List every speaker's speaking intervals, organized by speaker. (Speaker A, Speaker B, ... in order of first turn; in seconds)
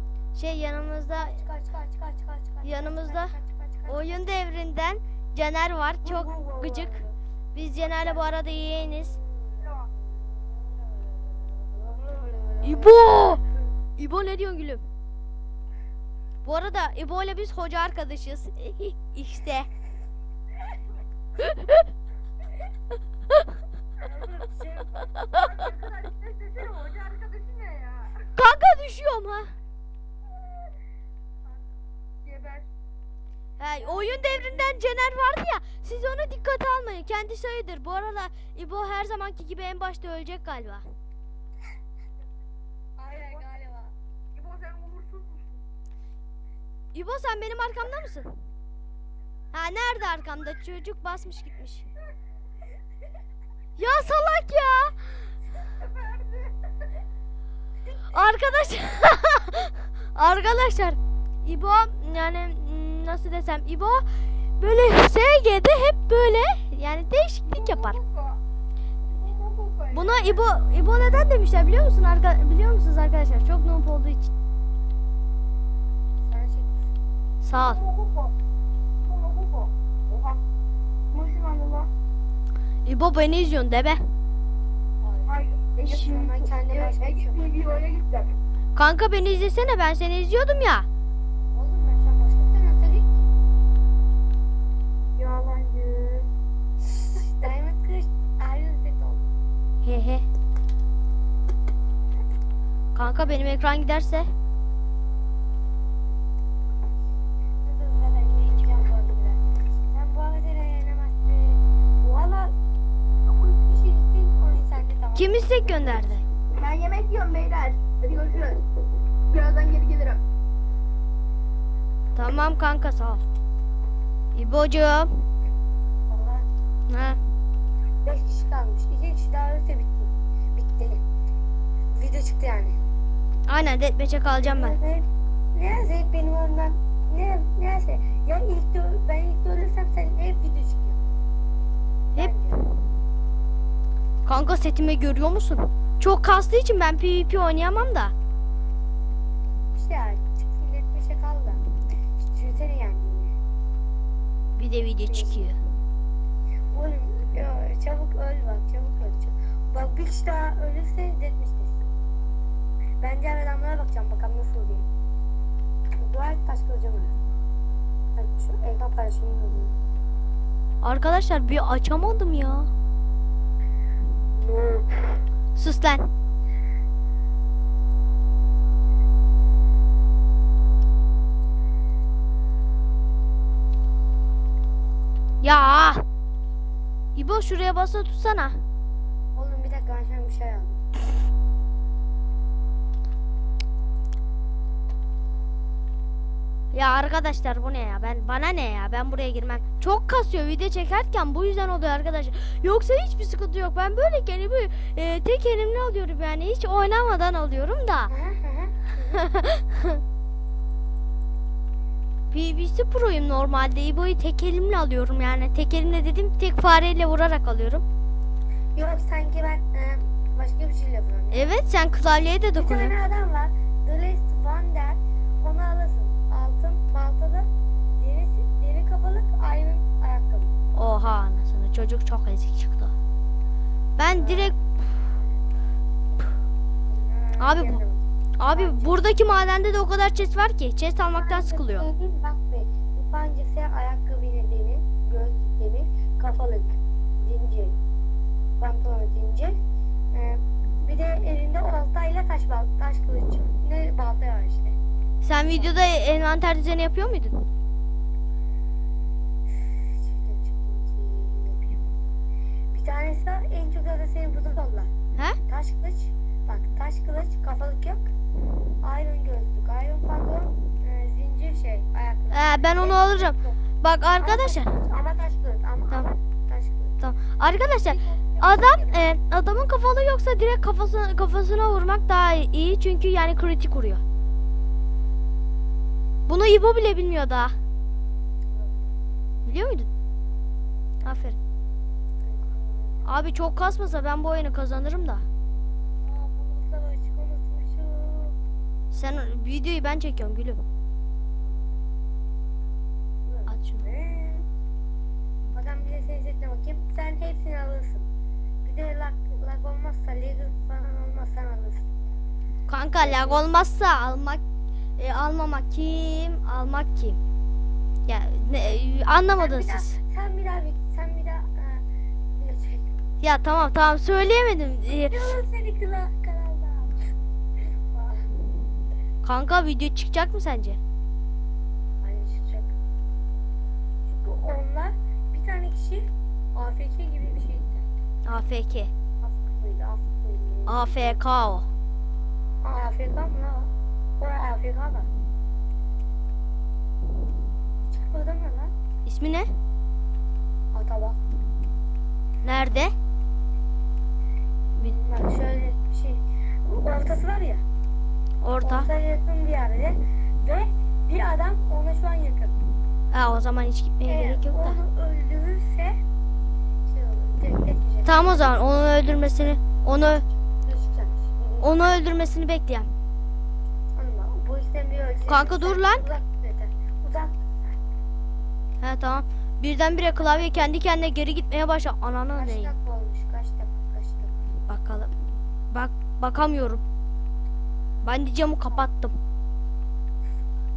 Speaker A: 0.3-1.4, 2.6-3.3, 3.9-9.2, 12.6-13.4, 14.0-14.8, 16.4-19.7, 21.4-21.8, 28.3-29.5, 33.6-40.8, 46.9-48.3, 49.5-51.9, 53.8-55.1, 58.1-64.1, 64.6-68.0, 69.9-74.3, 77.4-77.8, 82.8-84.0, 88.7-90.9, 99.8-100.2, 102.9-104.3, 115.2-116.2, 122.1-123.2, 124.3-125.1, 126.9-127.2, 133.5-134.7, 144.2-148.1, 154.6-155.6, 170.8-172.7, 175.5-176.1, 185.4-186.0, 187.1-188.6, 196.7-208.1, 209.1-210.0, 212.3-217.8, 221.3-222.9, 230.7-232.9, 234.0-234.5, 237.4-237.8, 238.4-241.9, 255.2-257.4, 272.3-274.8, 277.0-284.0, 286.3-287.5, 289.4-289.9, 291.0-291.4, 293.0-295.2, 298.9-300.6, 303.5-303.8, 312.7-314.4, 315.0-317.2, 318.1-319.9, 323.2-325.3, 329.2-330.8, 338.2-338.9, 340.7-341.7, 349.1-349.5, 352.4-352.9, 358.4-358.9, 363.1-364.8, 368.0-370.2, 371.6-372.9, 375.3-376.1, 378.8-382.7, 384.7-385.1, 385.7-386.8, 388.0-389.1
Speaker B: 1.1-4.3, 6.0-7.1, 7.8-13.5, 24.0-25.6, 33.8-34.8, 43.0-43.9, 76.2-76.8, 85.0-87.6, 91.5-93.3, 96.9-99.3, 107.6-112.5, 113.3-116.2, 126.1-126.5, 128.0-131.0, 131.9-132.8, 134.4-141.0, 142.2-142.7, 149.7-151.6, 152.2-153.3, 155.1-155.5, 156.7-161.9, 163.0-164.9, 166.0-167.1, 168.2-169.7, 174.3-175.2, 189.3-190.8, 208.1-209.2, 218.7-221.5, 222.6-227.5, 228.0-230.5, 234.1-234.5, 236.9-239.1, 241.1-247.8, 248.6-249.6, 250.1-254.8, 255.4-255.7, 259.6-261.9, 262.7-264.9, 265.4-268.1, 268.8-273.6, 274.2-276.9, 277.8-279.1, 288.5-288.9, 292.2-293.1, 296.0-298.4, 303.2-304.4, 305.5-308.1, 308.6-312.0, 313.0-313.4, 319.4-322.9, 325.0-327.0, 327.8-328.3, 332.0-332.7, 334.1-337.9, 339.2-341.2, 342.6-345.1, 347.9-348.7, 350.7-351.2, 354.8-357.6, 358.6-362.6, 364.1-366.0, 366.9-372.0, 373.9-377.8, 380.1-380.7, 382.3-384.4
Speaker C: 25.3-28.2, 32.2-32.7, 44.3-45.5, 55.8-56.5, 67.5-68.4, 69.1-70.2, 77.5-78.3, 79.0-80.4, 81.1-81.9, 85.3-88.3, 95.2-96.3, 116.5-118.7, 119.2-120.2